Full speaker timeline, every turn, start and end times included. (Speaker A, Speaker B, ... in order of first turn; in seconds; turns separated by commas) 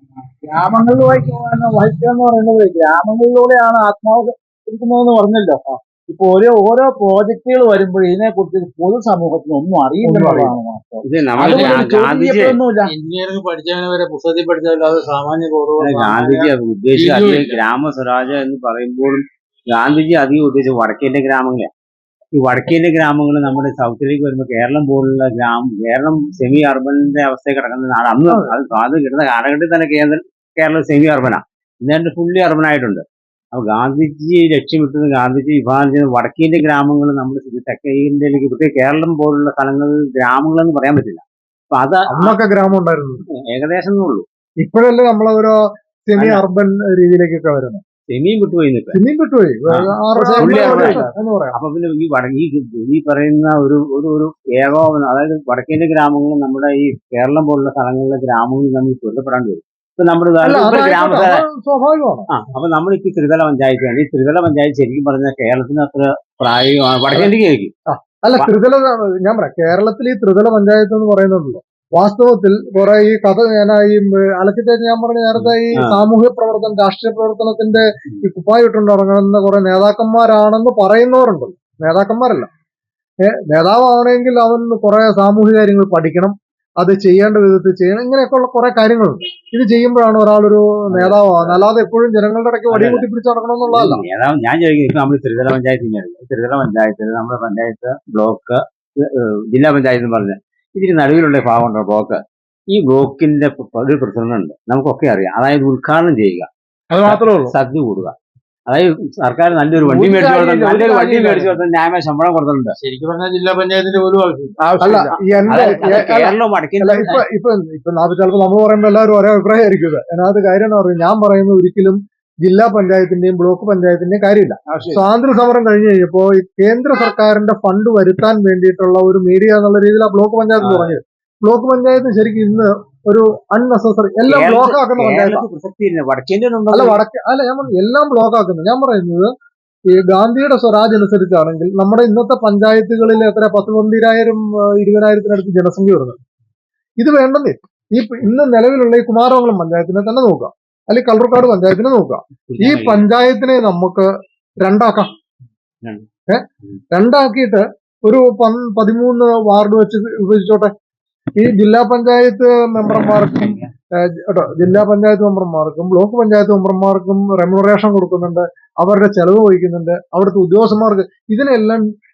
Speaker A: 0.4-12.9, Speaker B: 10.0-10.6, Speaker C: 11.0-12.6, Speaker D: 11.4-12.0, Speaker D: 12.8-17.6, Speaker C: 15.8-21.7, Speaker C: 22.3-42.4, Speaker B: 42.1-43.2, Speaker C: 43.5-44.2, Speaker B: 44.6-45.5, Speaker B: 46.1-47.8, Speaker C: 46.1-46.4, Speaker C: 48.1-49.0, Speaker B: 48.9-51.5, Speaker C: 49.7-61.4, Speaker A: 50.1-51.0, Speaker B: 60.4-62.3, Speaker C: 62.3-67.7, Speaker B: 67.9-82.5, Speaker C: 75.3-76.0, Speaker B: 83.3-94.0, Speaker C: 90.9-91.6, Speaker C: 92.7-93.0, Speaker C: 93.7-102.2, Speaker C: 102.7-106.5, Speaker A: 106.9-107.5, Speaker C: 107.0-108.1, Speaker C: 108.7-112.7, Speaker A: 109.8-111.6, Speaker D: 112.8-114.6, Speaker A: 114.6-115.6, Speaker B: 114.8-135.4, Speaker C: 115.5-117.2, Speaker C: 130.6-130.9, Speaker C: 134.3-137.0, Speaker B: 136.7-139.3, Speaker B: 140.1-146.2, Speaker B: 147.0-154.1, Speaker C: 152.5-153.0, Speaker B: 154.6-155.1, Speaker B: 156.3-160.7, Speaker B: 161.4-171.8